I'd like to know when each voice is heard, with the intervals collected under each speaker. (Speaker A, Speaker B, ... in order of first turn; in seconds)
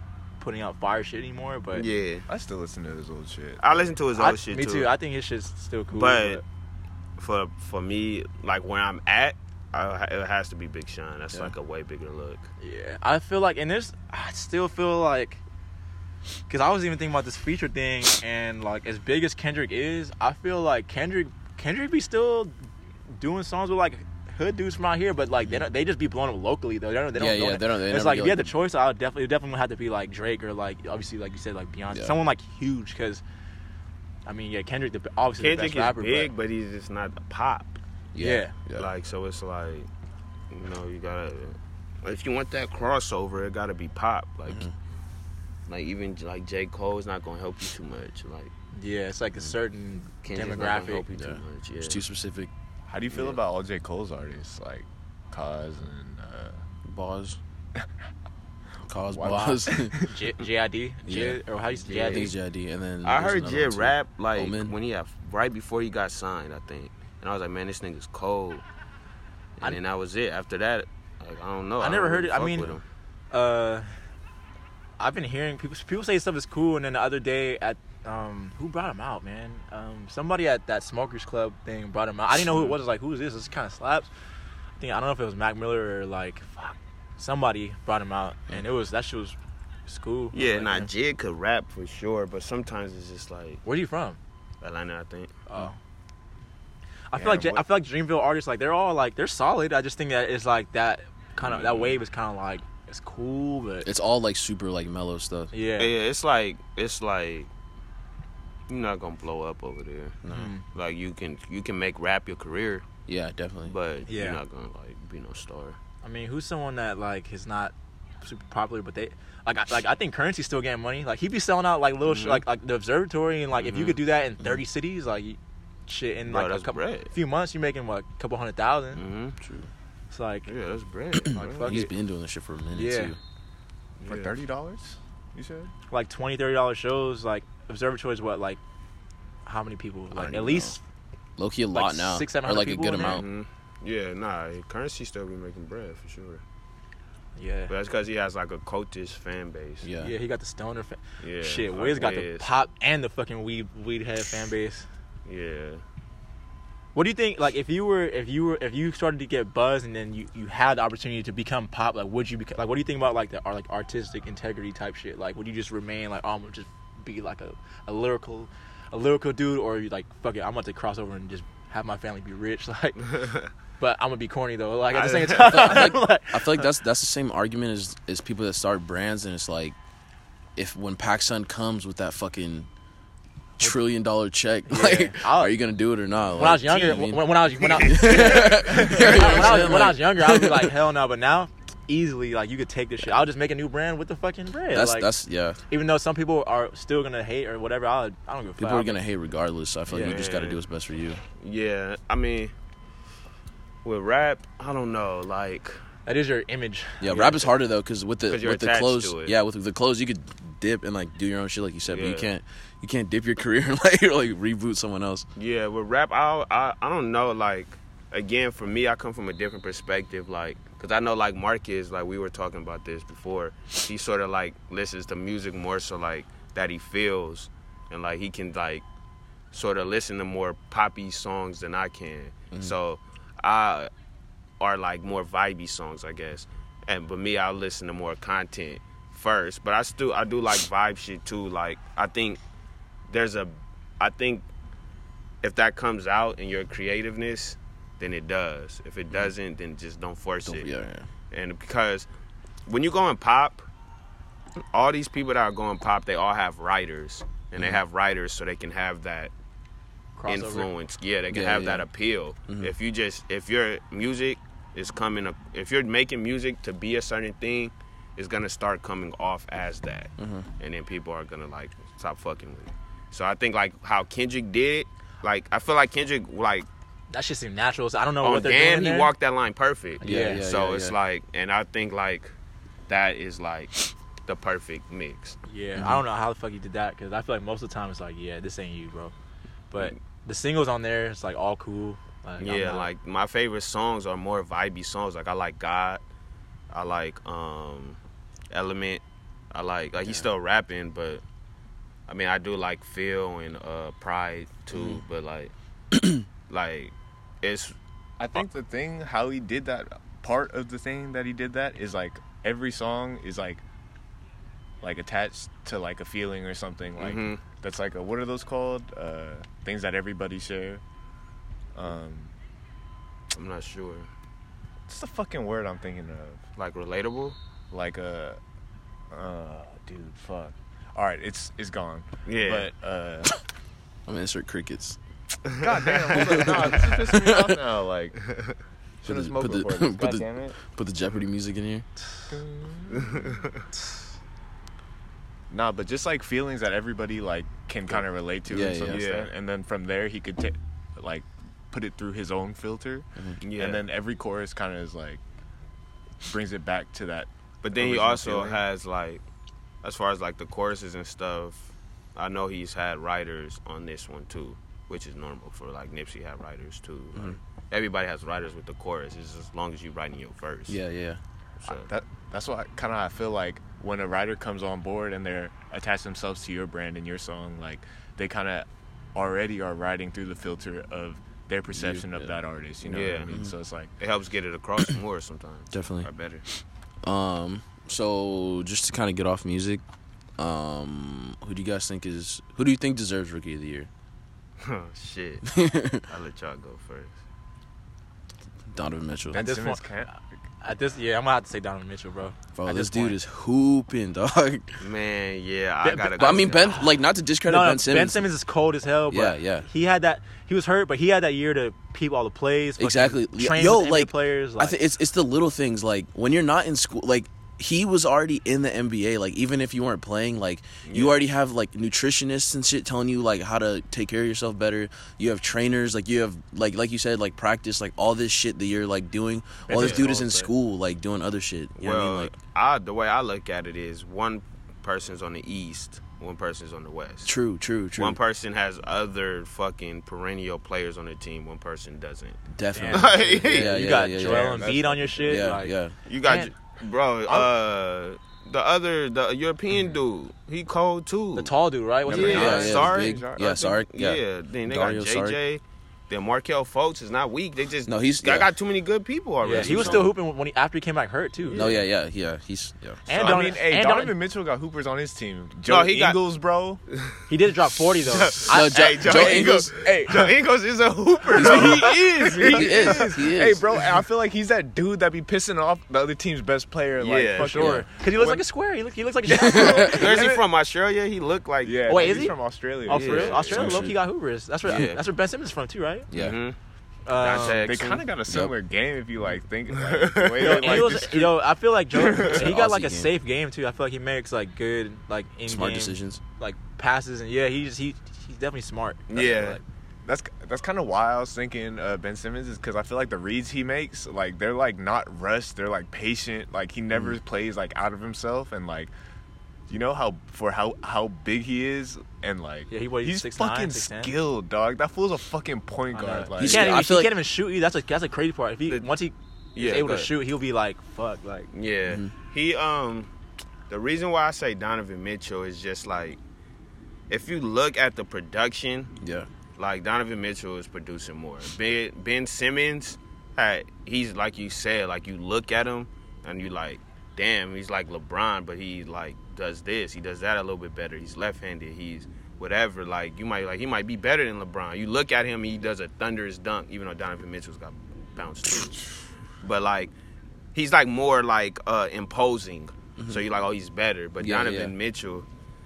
Speaker A: 0.4-1.9, 4.1-6.4, 12.6-15.4, 16.5-22.5, 23.2-33.2, 34.3-36.3, 38.2-38.5, 48.7-51.1, 60.0-62.3, 71.8-72.8, 73.3-73.9, 75.0-84.1, 84.8-89.4, 89.9-90.9, 93.6-94.2, 95.5-95.8, 97.1-103.9, 105.5-105.9, 110.3-110.6, 114.1-114.4, 116.0-129.0, 130.1-130.5, 131.3-131.9, 132.8-133.1, 135.9-138.6, 139.5-140.8, 141.7-143.2, 147.4-147.7, 150.0-154.9, 156.9-173.2, 173.8-176.7, 184.7-185.6, 186.4-195.1, 195.7-199.0, 199.9-200.2, 206.1-207.5, 260.2-260.7, 277.1-279.1, 280.0-280.5, 285.5-289.1, 289.7-292.9, 399.3-399.9, 400.6-403.2, 405.8-406.8, 407.5-414.8, 442.7-446.5, 451.4-452.8, 459.4-461.7, 463.1-464.1, 467.3-468.8, 477.5-480.1, 481.9-486.1, 487.1-487.7, 490.4-499.6, 512.7-514.1, 515.9-521.5
Speaker B: 1.7-2.2, 3.6-4.9, 5.9-6.4, 7.2-12.5, 35.4-37.8, 38.7-39.9, 40.5-44.7, 45.7-48.5, 50.2-52.0, 53.1-53.4, 61.9-62.2, 63.0-68.6, 69.6-72.8, 90.3-93.6, 94.6-95.3, 97.2-97.6, 101.4-102.0, 105.8-107.5, 108.7-112.9, 113.6-115.8, 122.1-122.4, 123.6-124.0, 126.3-127.1, 129.0-129.3, 130.5-131.8, 134.0-134.3, 143.0-146.4, 147.7-149.9, 151.2-152.5, 155.3-155.8, 173.2-173.5, 174.9-175.8, 199.9-200.6, 201.4-202.5, 203.8-205.8, 208.3-209.4, 211.9-212.3, 215.4-228.8, 229.5-233.9, 234.6-242.4, 243.1-244.5, 245.4-250.7, 251.3-252.1, 252.7-253.7, 254.7-259.3, 260.3-276.7, 278.2-282.3, 282.9-285.4, 292.4-296.0, 296.7-298.0, 298.5-301.2, 302.1-305.5, 306.5-307.8, 317.0-317.4, 323.3-324.1, 326.6-327.4, 332.3-332.7, 335.5-336.9, 338.2-338.5, 343.0-343.5, 348.9-349.3, 353.4-353.8, 357.6-359.2, 359.8-370.8, 371.6-371.9, 382.8-383.3, 384.0-386.5, 394.6-395.5, 396.1-397.2, 404.8-406.8, 420.9-421.2, 429.7-430.3, 431.8-437.3, 438.0-443.7, 446.1-451.5, 452.1-460.1, 465.7-466.2, 468.1-472.6, 477.0-477.7, 479.9-482.1, 482.9-483.9, 484.6-485.0, 486.1-486.6, 487.1-488.1, 489.8-490.9, 499.1-499.6, 519.5-520.1, 521.5-523.1, 523.7-526.2, 527.1-528.9, 529.6-548.8, 549.4-549.9, 550.5-555.3
Speaker C: 2.3-4.0, 52.9-56.6, 59.1-60.0, 134.1-135.7, 308.2-313.6, 314.8-320.8, 321.8-322.3, 324.9-326.4, 327.7-328.4, 329.1-333.3, 335.6-338.2, 339.0-340.6, 342.3-343.4, 345.5-355.2, 356.2-358.6, 371.7-383.9, 399.3-400.1, 429.7-430.4, 444.1-445.5, 452.1-453.7, 463.1-466.8, 469.0-470.4, 471.3-478.4, 479.3-480.5, 481.6-483.9, 487.5-491.4, 491.9-492.5, 500.1-508.9, 509.7-516.8
Speaker D: 27.1-28.5, 31.9-32.2, 38.1-38.9, 51.1-52.5, 56.9-57.4, 58.9-60.0, 61.1-64.7, 103.8-105.5, 110.2-110.5, 113.1-113.8, 129.4-129.7, 131.6-133.2, 140.1-140.8, 141.4-143.2, 149.8-150.1, 175.4-179.8, 180.6-182.7, 183.6-190.7, 194.7-195.6, 198.6-201.2, 207.0-215.3, 250.4-251.1, 261.3-261.9, 270.2-270.5, 280.0-281.0, 285.8-286.0, 334.1-335.0, 336.1-337.6, 339.1-341.9, 348.5-349.0, 370.7-371.2, 381.7-382.3, 385.7-386.1, 387.0-389.8, 390.4-393.9, 395.5-396.0, 398.7-399.4, 402.6-404.8, 406.1-408.3, 409.1-409.7, 412.8-432.3, 437.2-438.2, 442.5-444.8, 445.3-445.9, 452.2-455.4, 457.9-458.5, 459.6-460.1, 461.5-463.0, 468.5-469.7, 471.4-473.6, 479.5-479.8, 486.1-486.4, 488.3-488.5, 492.3-493.1, 495.5-496.2, 516.4-517.1, 529.0-529.3, 554.2-554.7